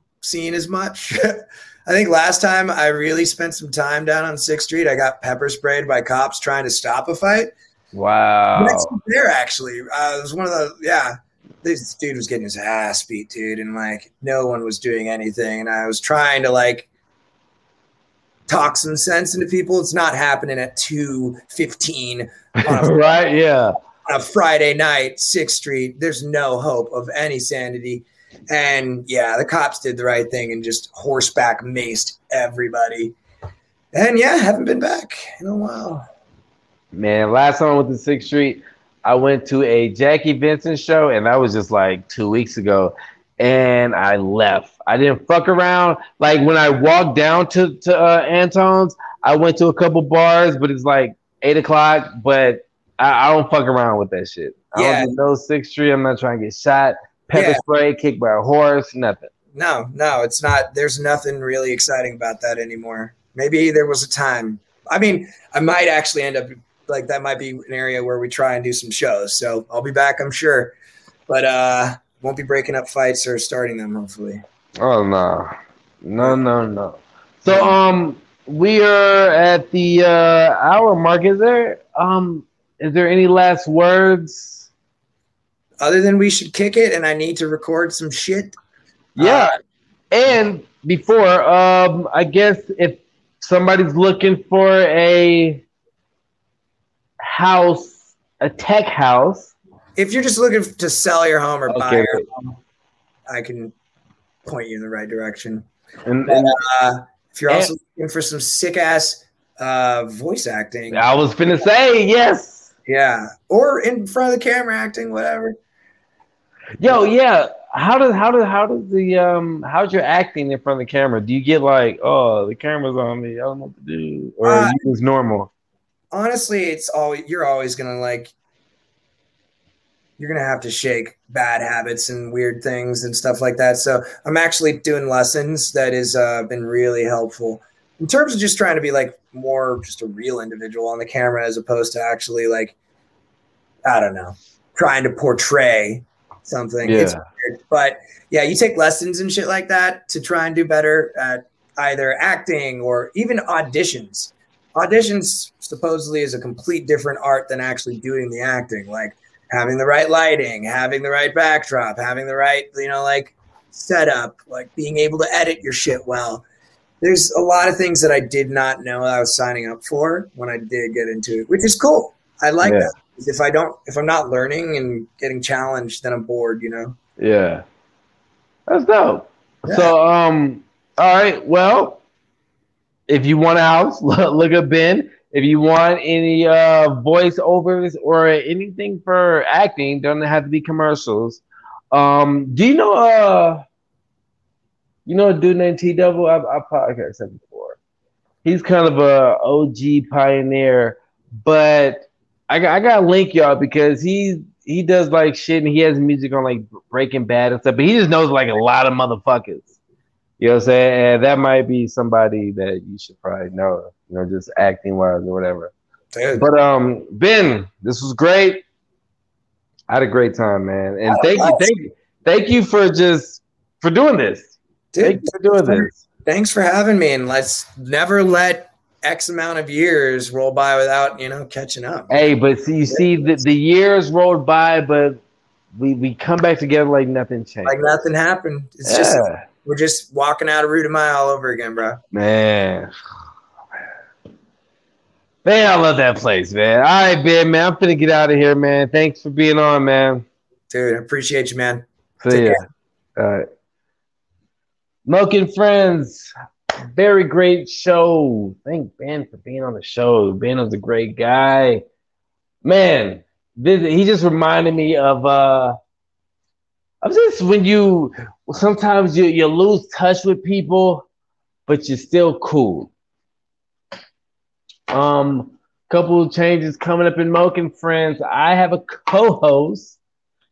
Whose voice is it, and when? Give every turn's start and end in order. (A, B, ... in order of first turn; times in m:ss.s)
0:00.2-0:07.5 A
0:07.9-0:09.0 B
0:08.6-0:16.9 A
0:18.5-0:23.2 A
0:22.6-0:23.7 B
0:24.0-0:33.1 A
0:33.9-0:36.0 A
0:36.9-0:59.3 B
0:54.7-0:55.1 A
0:57.3-0:57.6 A
0:59.5-1:10.7 A
1:11.3-1:14.4 A
1:14.8-1:15.5 B
1:16.0-1:24.7 B
1:17.5-1:17.7 A
1:25.8-1:28.5 A
1:29.2-1:29.5 A
1:29.2-1:29.5 B
1:30.1-1:35.6 B
1:37.2-1:39.5 B
1:40.0-1:42.6 A
1:41.7-1:42.2 B
1:43.3-1:43.7 A
1:44.4-1:45.6 A
1:46.0-1:46.6 B
1:46.3-1:51.1 A
1:50.9-1:52.7 B
1:52.8-1:55.5 A
1:56.8-2:05.5 B
2:04.4-2:04.8 A
2:06.1-2:08.3 A
2:10.2-2:22.8 A
2:23.8-2:46.4 A
2:26.8-2:27.2 B
2:47.0-2:57.0 A
2:52.6-2:52.9 B
2:57.2-2:57.6 B
2:58.7-3:02.0 B
2:59.6-2:59.9 A
3:03.1-3:13.6 B
3:15.0-3:17.8 B
3:18.4-3:29.8 B
3:30.4-3:35.7 B
3:36.1-3:36.4 A
3:36.4-3:38.6 B
3:39.9-3:46.0 B
3:41.1-3:41.6 A
3:44.9-3:52.1 A
3:52.1-3:55.2 B
3:52.9-3:53.3 A
3:55.8-3:57.8 B
3:57.6-4:02.0 A
3:58.8-3:59.4 B
4:02.1-4:02.9 B
4:05.4-4:10.2 B
4:10.7-4:12.6 A
4:12.2-4:12.6 B
4:13.2-4:13.4 B
4:15.0-4:16.3 B
4:16.9-4:21.8 B
4:22.6-4:25.8 B
4:27.0-4:31.1 B
4:31.7-4:32.9 B
4:34.9-4:40.0 B